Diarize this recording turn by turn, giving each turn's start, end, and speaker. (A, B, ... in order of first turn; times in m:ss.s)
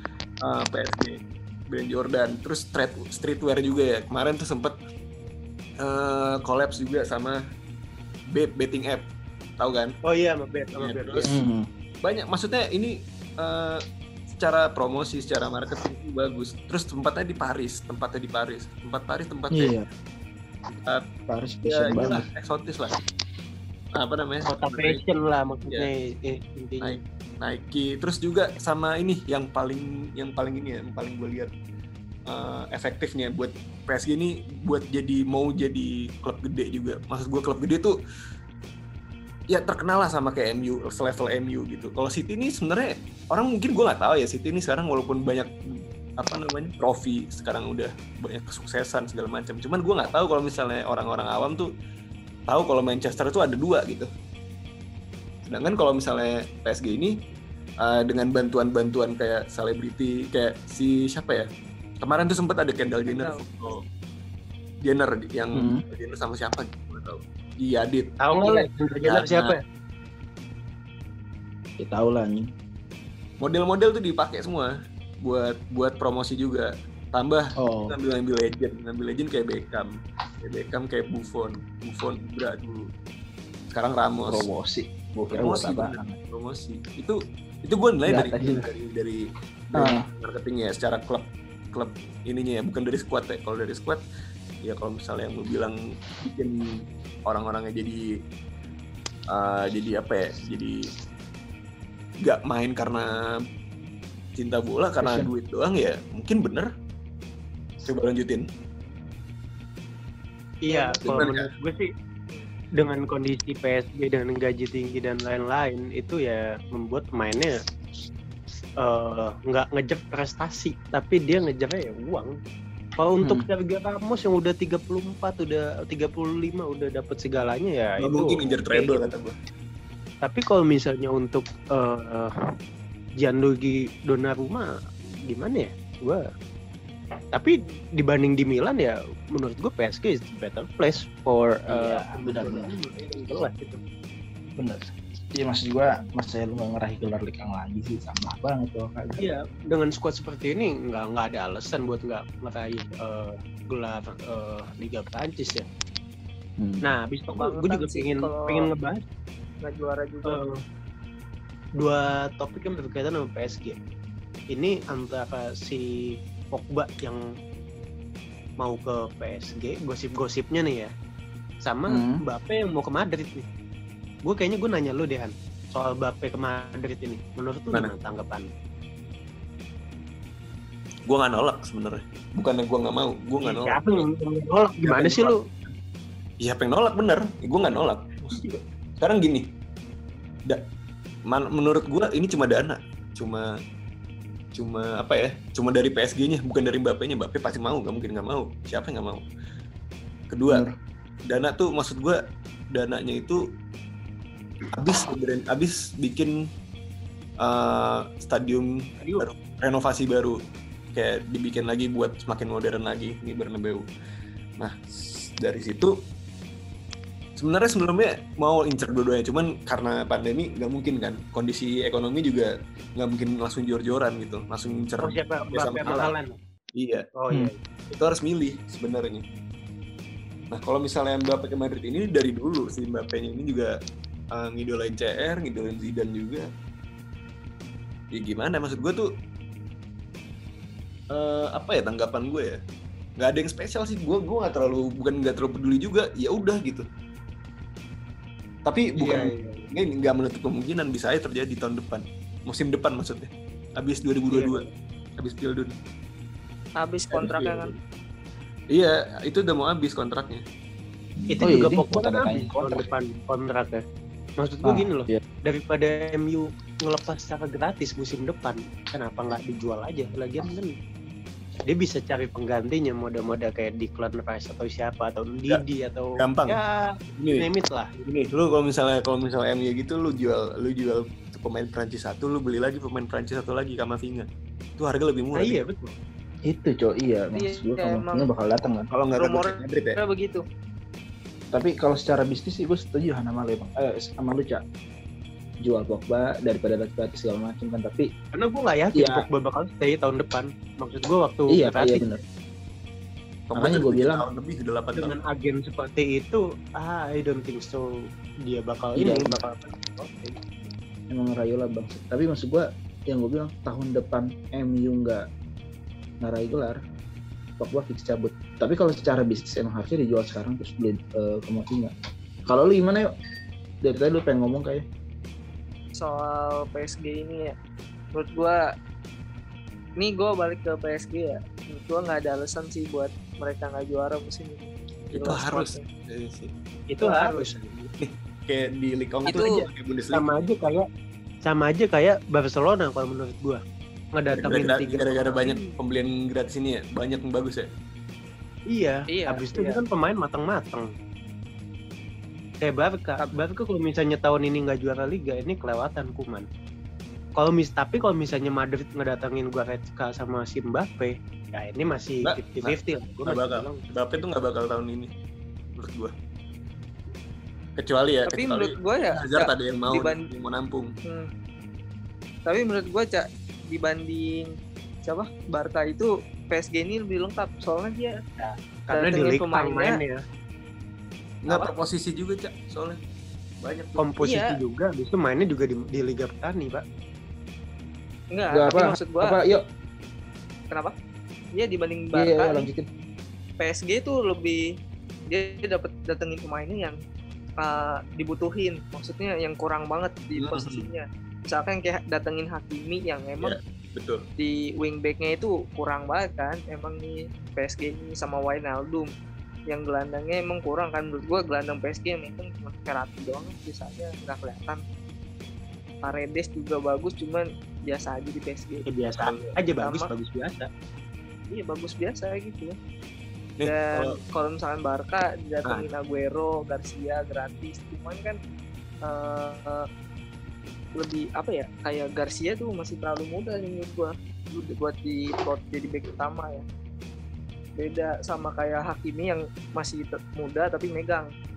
0:00.4-0:04.8 A
0:05.8-0:07.4 A
0:08.3-0:10.0 A
0:10.1-0:11.3 B
0:10.8-0:11.4 A
0:11.3-0:11.7 C
0:12.0-0:13.8 A
0:14.4-0:19.7 A
0:19.5-0:19.8 C
0:21.3-0:22.3 C
0:21.6-0:23.0 A
0:24.0-0:25.0 A
0:24.5-0:27.0 B
0:26.8-0:31.5 A
0:32.3-0:38.0 A
0:39.5-0:45.5 A
0:46.2-0:51.7 A
0:52.5-0:54.1 A
0:55.5-0:57.1 A
0:57.8-1:01.5 A
1:02.0-1:03.8 A
1:03.1-1:03.8 D
1:04.8-1:09.6 A
1:05.6-1:05.8 C
1:08.2-1:09.6 B
1:11.8-1:12.5 C
1:13.4-1:14.7 A
1:15.2-1:22.9 A
1:17.6-1:18.0 C
1:23.7-1:24.5 A
1:24.3-1:26.2 C
1:25.3-1:29.2 A
1:28.1-1:28.7 C
1:29.7-1:34.0 A
1:29.8-1:30.0 C
1:34.6-1:38.0 A
1:39.3-1:40.8 A
1:42.2-1:43.1 A
1:44.4-1:46.7 A
1:45.0-1:45.3 C
1:47.9-1:48.5 A
1:50.6-1:51.9 B
1:50.7-1:51.0 D
1:51.1-1:51.5 A
1:52.8-1:57.6 B
1:58.8-2:02.3 B
2:03.0-2:09.0 B
2:03.2-2:03.5 C
2:08.0-2:09.3 A
2:10.2-2:12.3 B
2:13.2-2:14.7 B
2:15.3-2:16.3 B
2:17.3-2:23.8 B
2:21.7-2:22.7 C
2:24.6-2:29.3 C
2:29.2-2:35.7 B
2:36.6-2:37.0 C
2:36.8-2:39.0 B
2:37.3-2:38.7 D
2:39.6-2:40.4 D
2:40.3-2:40.6 B
2:41.8-2:43.8 B
2:44.5-2:47.2 B
2:48.6-2:50.9 B
2:51.6-2:53.5 B
2:51.9-2:52.2 C
2:54.2-2:58.5 B
3:01.1-3:04.1 A
3:03.4-3:05.4 B
3:04.8-3:05.7 A
3:06.4-3:09.5 A
3:11.3-3:13.5 A
3:14.6-3:19.2 A
3:20.3-3:20.6 A
3:20.5-3:20.8 C
3:21.3-3:22.2 A
3:22.7-3:23.4 A
3:24.7-3:26.3 A
3:27.4-3:28.7 A
3:29.0-3:29.3 B
3:29.2-3:30.4 A
3:30.9-3:33.8 A
3:34.6-3:35.9 A
3:37.4-3:46.1 A
3:45.0-3:46.4 B
3:46.8-3:47.1 A
3:47.2-3:47.6 B
3:47.9-3:49.2 A
3:50.5-3:53.7 A
3:54.3-3:56.5 A
3:58.1-3:59.1 A
4:01.1-4:02.6 A
4:03.2-4:06.9 A
4:08.7-4:14.7 A
4:09.0-4:09.7 B
4:14.3-4:14.7 B
4:15.2-4:15.7 A
4:16.8-4:17.8 D
4:17.1-4:17.8 A
4:18.7-4:20.4 A
4:21.2-4:22.9 C
4:21.3-4:23.8 B
4:24.4-4:30.7 B
4:24.6-4:25.2 C
4:31.7-4:37.9 B
4:36.2-4:36.6 A
4:37.2-4:37.5 A
4:38.0-4:44.3 A
4:44.8-4:45.6 A
4:45.4-4:45.9 B
4:46.5-4:48.9 C
4:47.3-4:48.3 D
4:48.9-4:50.0 A
4:49.2-4:50.4 D
4:51.5-4:54.6 C
4:55.6-4:58.1 C
4:58.3-5:02.2 B
4:59.0-4:59.3 C
5:01.5-5:02.2 C
5:03.5-5:05.2 A
5:03.6-5:04.2 C
5:05.0-5:07.9 B
5:08.5-5:10.7 B
5:09.0-5:09.4 C
5:11.1-5:15.2 C
5:16.2-5:16.8 C
5:17.6-5:21.9 C
5:22.5-5:23.1 C
5:23.8-5:24.8 C
5:26.0-5:27.6 D
5:28.1-5:28.6 D
5:30.0-5:35.8 D
5:35.1-5:36.5 A
5:36.9-5:37.9 B
5:37.0-5:37.5 D
5:38.0-5:40.4 A
5:40.1-5:40.9 B
5:41.4-5:43.6 B
5:44.2-5:45.8 B
5:44.4-5:47.7 A
5:48.7-5:50.9 B
5:49.1-5:49.8 D
5:52.6-5:56.5 B
5:57.4-6:03.8 B
6:02.2-6:05.1 A
6:05.7-6:06.1 A
6:07.8-6:10.9 A
6:08.3-6:10.2 D
6:12.5-6:14.5 D
6:15.1-6:18.2 D
6:18.4-6:20.2 B
6:18.9-6:20.0 D
6:21.4-6:23.0 A
6:23.6-6:24.2 A
6:24.0-6:26.8 B
6:24.2-6:24.6 D
6:28.3-6:29.4 D
6:28.5-6:29.6 C
6:31.6-6:32.7 D
6:32.2-6:32.9 C
6:33.6-6:34.6 D
6:35.3-6:37.0 D
6:37.6-6:43.6 D
6:40.4-6:40.9 A
6:43.4-6:44.2 A
6:44.4-6:49.1 D
6:49.7-6:54.8 D
6:56.0-6:58.8 D
6:58.9-7:00.7 B
6:59.2-6:59.6 A
6:59.8-7:00.1 D
7:01.5-7:02.8 D
7:03.6-7:04.2 A
7:03.6-7:08.4 D
7:09.1-7:09.8 D
7:11.0-7:16.6 D
7:17.8-7:21.3 D